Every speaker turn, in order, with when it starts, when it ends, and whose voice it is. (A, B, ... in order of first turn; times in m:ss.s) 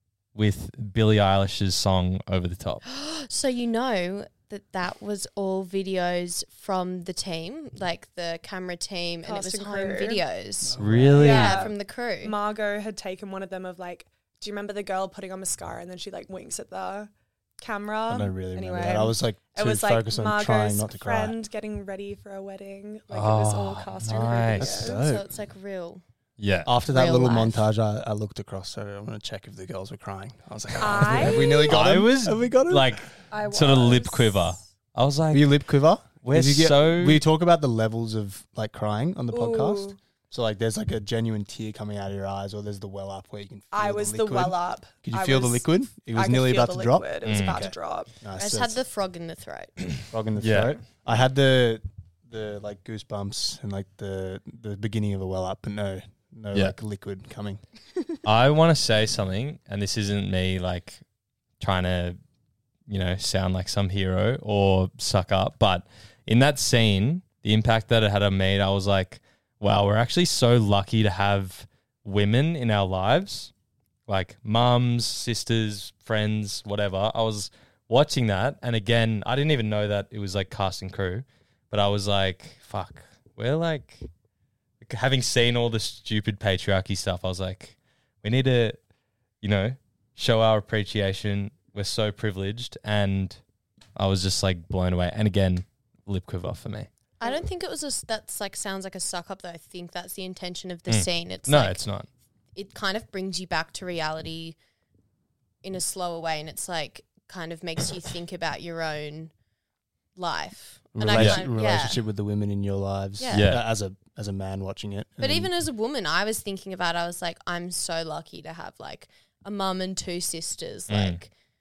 0:00.3-0:02.8 A
0:02.9-0:12.3 B
0:09.2-0:10.2 C
0:10.6-0:11.6 D
0:10.8-0:11.6 A
0:11.2-0:25.0 C
0:18.1-0:21.4 D
0:23.1-0:24.7 A
0:24.6-0:25.3 D
0:24.9-0:26.0 B
0:26.4-0:26.7 A
0:26.6-0:33.0 D
0:26.8-0:27.6 B
0:30.8-0:31.9 C
0:31.7-0:35.5 A
0:33.3-0:34.6 C
0:35.3-0:48.8 D
0:36.2-0:37.2 A
0:39.3-0:40.0 C
0:43.7-0:48.1 C
0:47.2-0:47.6 A
0:48.4-0:49.8 B
0:50.1-0:57.6 D
0:50.4-0:50.8 A
0:58.2-1:01.0 A
1:01.6-1:02.2 A
1:02.9-1:13.5 A
1:14.1-1:24.1 A
1:24.8-1:28.8 A
1:29.4-1:33.4 A
1:34.0-1:36.9 A
1:37.2-1:41.8 B
1:40.9-1:42.1 A
1:42.6-1:44.6 B
1:45.6-1:49.3 B
1:50.2-1:52.0 B
1:50.9-1:55.5 D
1:51.1-1:51.4 A
1:53.2-1:53.6 B
1:53.3-1:53.6 A
1:55.2-2:01.3 B
2:00.9-2:01.2 A